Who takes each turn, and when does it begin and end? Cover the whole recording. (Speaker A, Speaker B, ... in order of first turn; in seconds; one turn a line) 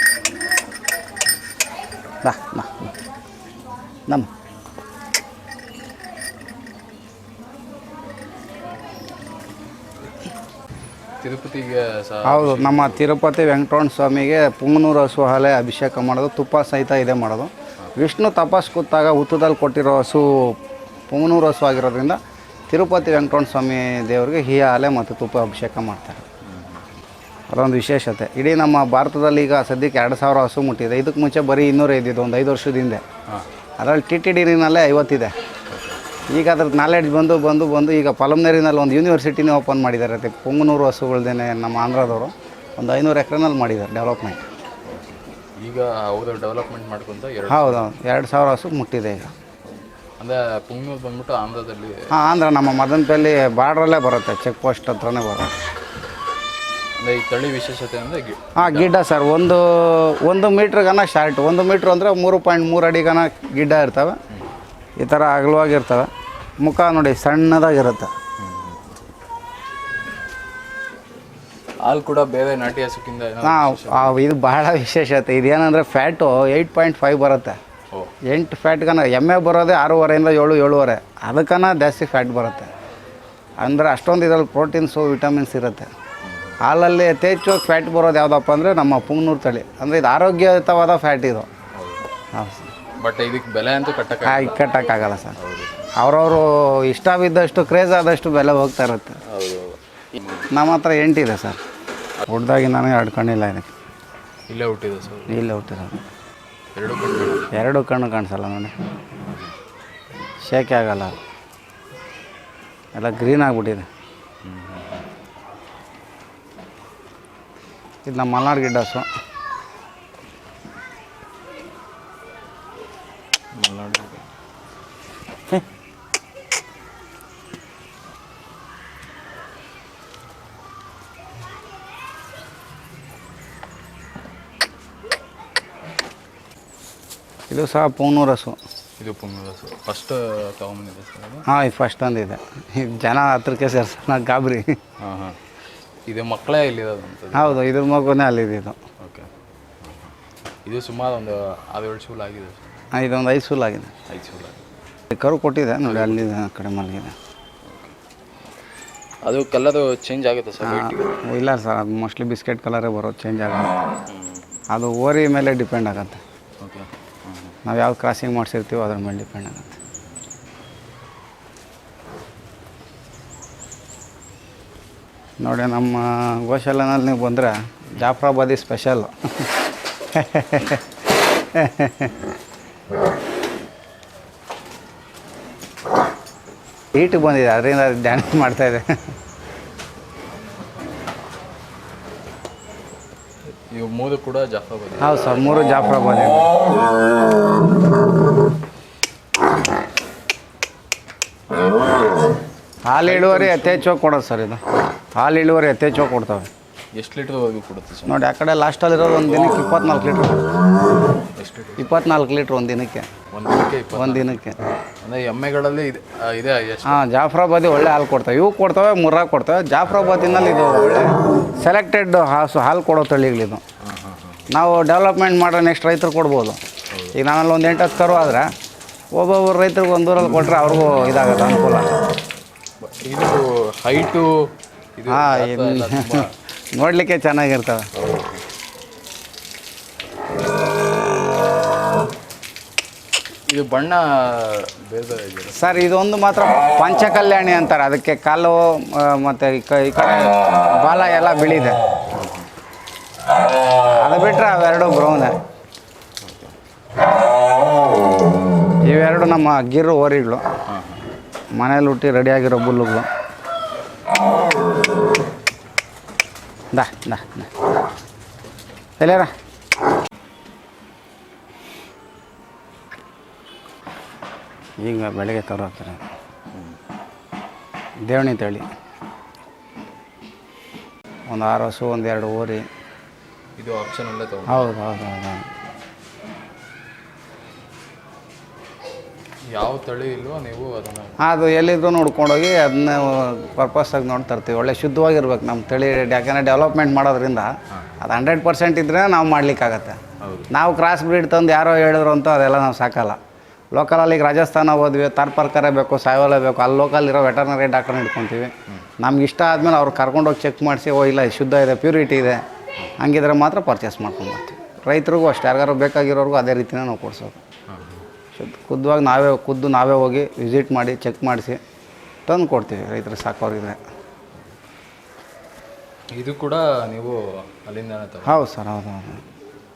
Speaker A: 2.2-2.9
Speaker B: 11.2-13.0
Speaker A: 12.2-20.6
Speaker A: 21.1-22.2
Speaker A: 22.7-26.2
Speaker B: 26.4-26.9
Speaker A: 27.5-33.0
Speaker A: 33.8-35.3
Speaker B: 35.7-36.0
Speaker A: 36.3-44.5
Speaker B: 44.9-47.9
Speaker A: 47.5-49.3
Speaker B: 50.2-52.1
Speaker A: 52.1-55.5
Speaker B: 57.0-59.0
Speaker A: 58.5-64.2
Speaker A: 65.0-68.1
Speaker B: 68.4-68.8
Speaker B: 71.8-74.2
Speaker A: 73.4-77.6
Speaker A: 78.3-82.7
Speaker A: 83.6-85.9
Speaker B: 86.2-86.6
Speaker A: 86.6-91.5
Speaker B: 91.7-92.1
Speaker A: 92.3-92.7
Speaker B: 93.0-94.7
Speaker A: 94.2-95.4
Speaker B: 95.3-95.9
Speaker A: 96.0-99.2
Speaker B: 99.2-100.5
Speaker A: 100.5-101.6
Speaker A: 102.2-103.7
Speaker B: 104.5-105.4
Speaker A: 105.3-106.0
Speaker B: 106.7-107.6
Speaker A: 107.5-108.7
Speaker B: 109.2-109.5
Speaker A: 110.4-111.2
Speaker A: 112.9-113.9
Speaker B: 114.4-115.0
Speaker A: 118.0-119.1
Speaker B: 123.5-124.2
Speaker A: 137.5-138.6
Speaker B: 139.0-141.4
Speaker A: 141.4-144.7
Speaker B: 145.0-145.4
Speaker B: 146.1-147.6
Speaker A: 147.3-148.8
Speaker B: 149.0-150.1
Speaker B: 150.6-152.9
Speaker A: 152.9-153.9
Speaker B: 154.1-154.6
Speaker A: 155.1-157.1
Speaker B: 155.8-156.3
Speaker B: 157.6-157.9
Speaker B: 159.2-161.2
Speaker A: 160.6-163.7
Speaker B: 164.1-164.5
Speaker A: 164.7-166.2
Speaker B: 166.6-167.6
Speaker A: 167.6-169.8
Speaker A: 175.4-179.5
Speaker A: 180.1-180.8
Speaker A: 181.5-182.1
Speaker A: 186.9-189.0
Speaker B: 193.7-195.4
Speaker A: 195.0-196.5
Speaker A: 202.8-204.6
Speaker B: 203.0-203.9
Speaker A: 205.1-206.5
Speaker B: 206.9-208.2
Speaker A: 208.1-210.5
Speaker B: 209.2-209.8
Speaker B: 211.3-211.9
Speaker A: 211.8-213.1
Speaker B: 213.3-214.4
Speaker A: 213.9-214.6
Speaker B: 215.0-217.0
Speaker A: 216.8-223.6
Speaker B: 223.8-224.5
Speaker A: 224.5-226.6
Speaker B: 226.9-227.2
Speaker A: 227.1-228.5
Speaker A: 229.1-232.0
Speaker B: 232.8-236.3
Speaker A: 235.1-237.9
Speaker B: 237.9-238.4
Speaker B: 243.5-245.9
Speaker A: 245.5-251.8
Speaker B: 252.1-252.5
Speaker A: 253.9-255.3
Speaker B: 256.2-256.5
Speaker A: 258.8-260.4
Speaker B: 260.7-261.0
Speaker A: 261.6-263.1
Speaker A: 266.7-267.5
Speaker A: 269.0-269.3
Speaker A: 274.8-276.0
Speaker B: 276.5-276.8
Speaker A: 278.0-278.6
Speaker A: 281.3-282.6
Speaker B: 283.6-284.7
Speaker A: 284.5-285.5
Speaker B: 289.5-291.2
Speaker A: 291.2-300.0
Speaker B: 300.2-300.5
Speaker A: 300.5-303.2
Speaker A: 303.7-312.4
Speaker A: 313.0-317.4
Speaker B: 317.7-318.1
Speaker A: 318.3-321.6
Speaker A: 322.3-323.8
Speaker B: 326.1-328.4
Speaker A: 328.2-329.2